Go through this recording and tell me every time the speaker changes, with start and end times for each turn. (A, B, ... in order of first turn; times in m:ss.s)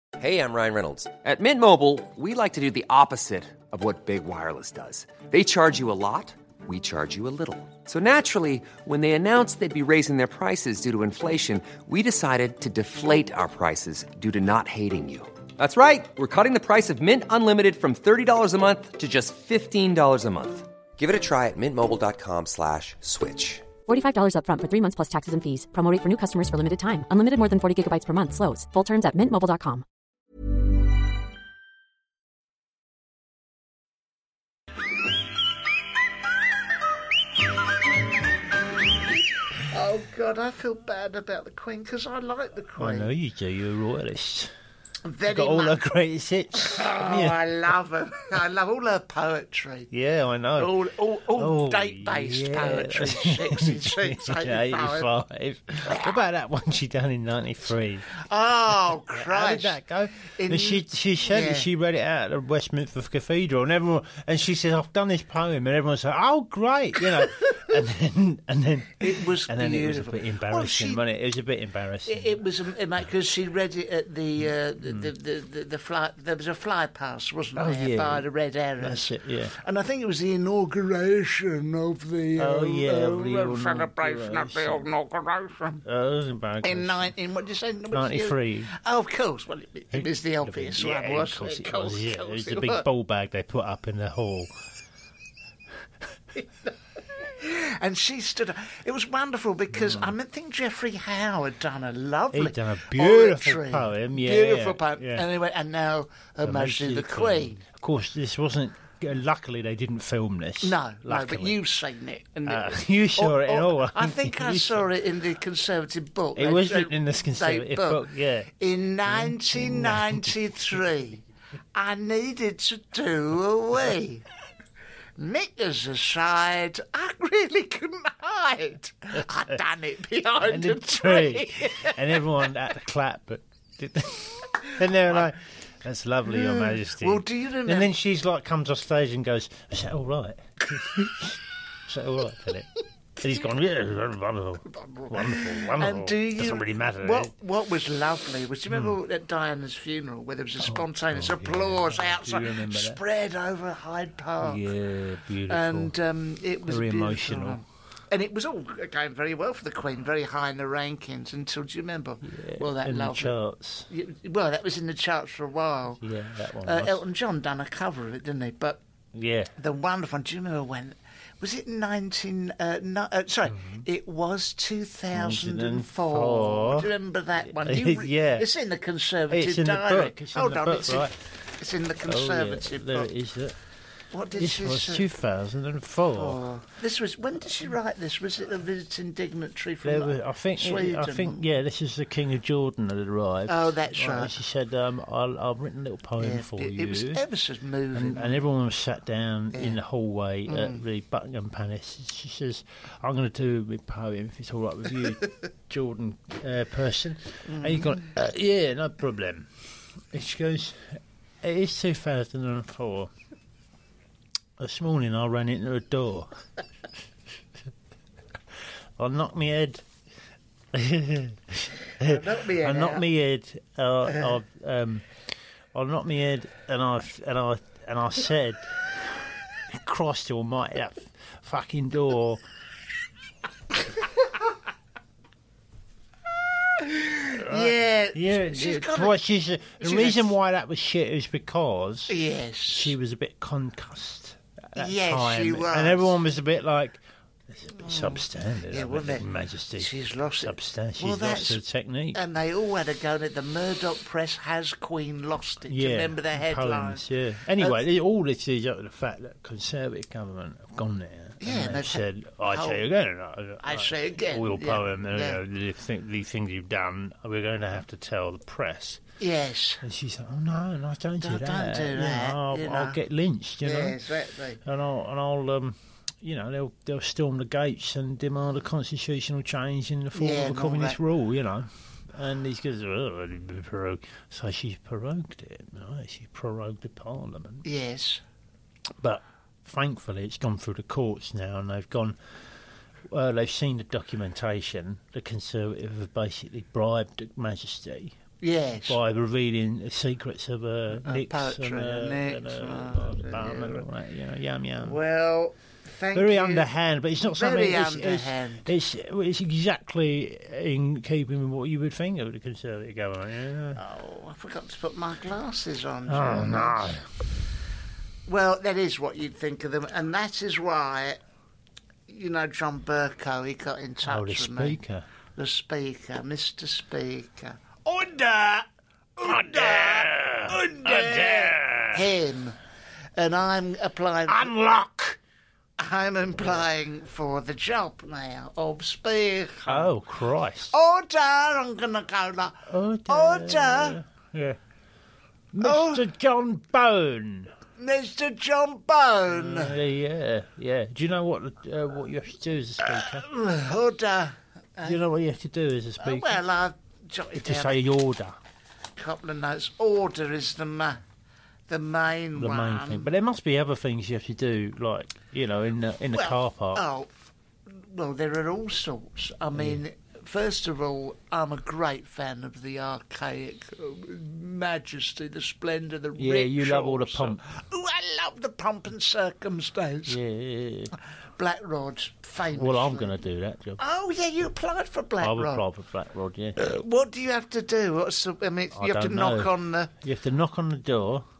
0:00.2-0:23.7 A
0:23.8-0:29.8 B
0:39.6-0:43.1 C
0:42.8-0:44.5 D
0:45.0-0:45.8 C
0:45.3-0:47.7 D
0:46.6-0:49.9 C
0:49.9-0:50.8 D
0:50.6-0:55.1 C
0:51.3-0:58.1 D
0:55.8-0:56.1 C
0:58.1-1:01.7 C
0:58.8-1:12.4 D
1:09.0-1:11.0 C
1:12.0-1:25.8 C
1:14.8-1:15.1 D
1:17.5-1:18.3 D
1:18.8-1:19.6 D
1:22.4-1:24.9 D
1:25.8-1:27.1 D
1:26.6-1:32.8 C
1:27.9-1:28.7 D
1:29.9-1:34.5 D
1:37.4-1:47.6 C
1:39.7-1:40.1 D
1:42.3-1:45.3 D
1:46.4-1:51.6 D
1:50.6-2:01.2 C
1:52.4-1:54.9 D
1:56.4-1:58.5 D
1:59.0-2:00.8 D
2:01.7-2:04.2 C
2:05.2-2:12.4 C
2:10.4-2:27.3 D
2:14.6-2:15.3 C
2:16.3-2:17.9 C
2:24.6-2:34.6 C
2:28.7-2:29.0 D
2:30.6-2:33.0 D
2:34.4-2:35.9 D
2:35.5-2:43.3 C
2:36.6-2:37.6 D
2:42.2-2:43.9 D
2:43.9-2:46.0 C
2:46.0-2:47.0 D
2:46.6-2:48.8 C
2:49.1-2:49.5 D
2:49.6-3:03.1 C
2:53.5-2:53.8 D
2:55.1-2:58.5 D
2:59.3-3:01.2 D
3:02.0-3:03.6 D
3:04.1-3:05.1 C
3:04.3-3:06.4 D
3:06.1-3:11.4 C
3:09.8-3:17.2 D
3:13.5-3:14.3 C
3:16.2-3:18.4 C
3:17.9-3:29.5 D
3:19.5-3:19.8 C
3:20.5-3:20.8 C
3:27.4-3:28.1 C
3:30.1-3:33.1 D
3:34.6-3:36.4 D
3:39.0-3:39.8 D
3:40.7-3:45.1 D
3:42.0-3:43.0 C
3:45.7-3:52.4 D
3:56.8-3:59.2 C
3:57.3-4:12.2 D
3:59.8-4:00.3 C
4:02.1-4:02.9 C
4:04.8-4:06.1 C
4:07.7-4:11.6 C
4:12.1-4:17.0 C
4:15.7-4:29.0 D
4:21.4-4:22.8 C
4:23.6-4:25.4 C
4:29.2-4:29.8 C
4:29.8-4:34.0 D
4:31.2-4:33.0 C
4:33.6-4:34.6 C
4:34.6-4:47.6 D
4:40.1-4:41.0 C
4:47.6-4:48.2 C
4:49.0-4:52.2 D
4:53.1-4:58.2 D
4:58.4-4:59.0 C
4:58.9-5:05.0 D
5:01.0-5:03.8 C
5:04.8-5:06.7 C
5:06.1-5:13.8 D
5:07.2-5:08.7 C
5:13.8-5:17.0 C
5:16.1-5:17.0 D
5:18.3-5:21.2 C
5:22.1-5:24.8 C
5:24.0-5:25.1 D
5:25.3-5:28.6 C
5:29.2-5:32.6 C
5:29.2-5:32.1 D
5:33.2-5:34.5 C
5:34.2-5:35.2 D
5:35.8-5:39.9 C
5:36.3-5:36.6 D
5:39.6-5:40.7 D
5:40.7-5:44.0 C
5:42.7-5:44.6 D
5:45.5-5:47.5 D
5:45.6-5:46.1 C
5:47.8-5:49.8 C
5:49.3-5:53.3 D
5:52.8-5:55.0 C
5:54.8-5:56.4 D
5:56.0-5:57.8 C
5:57.3-5:58.4 D
5:59.0-6:01.0 C
6:01.7-6:03.1 C
6:02.3-6:06.8 D
6:06.1-6:20.2 C
6:09.5-6:09.8 D
6:16.2-6:17.4 D
6:20.0-6:20.9 D
6:21.4-6:23.2 C
6:22.5-6:23.8 D
6:23.8-6:25.6 C
6:25.2-6:26.8 D
6:26.6-6:29.9 C
6:28.7-6:31.2 D